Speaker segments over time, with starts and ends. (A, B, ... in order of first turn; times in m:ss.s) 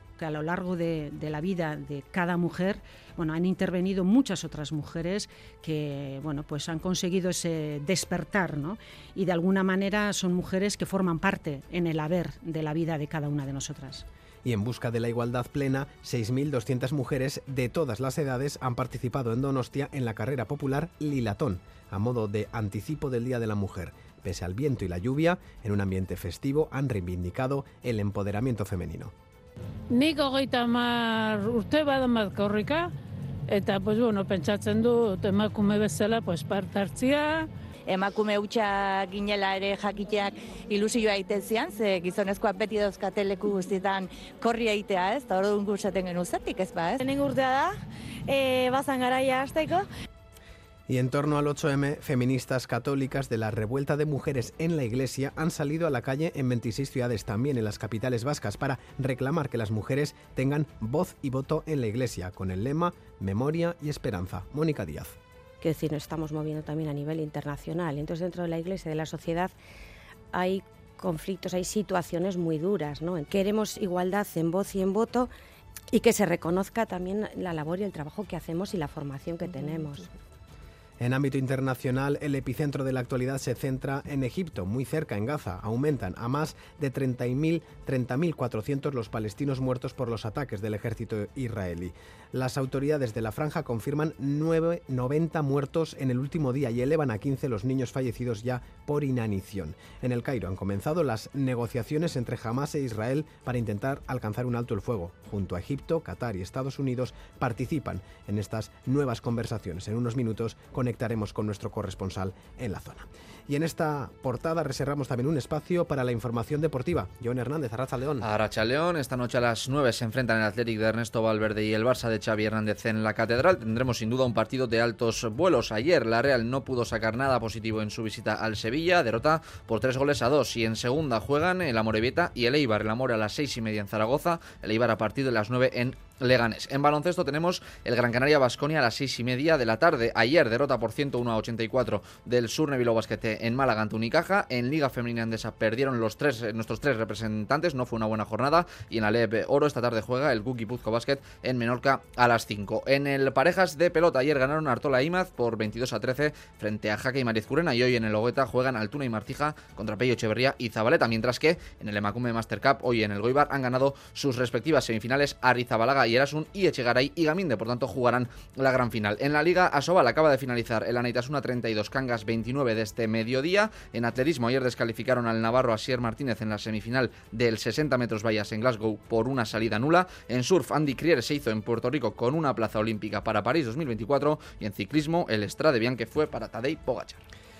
0:00.2-0:14.0 A
0:14.4-0:29.1 B
0:29.9-0:32.9 C
0:33.5-0:37.5 C
0:37.9-0:47.0 D
0:47.0-0:47.6 E
0:48.3-0:49.6 E
0:50.9-1:05.2 B
1:05.6-1:09.5 F
1:10.3-1:15.3 F
1:15.9-1:20.1 F
1:21.0-1:58.2 B
1:58.2-3:07.2 G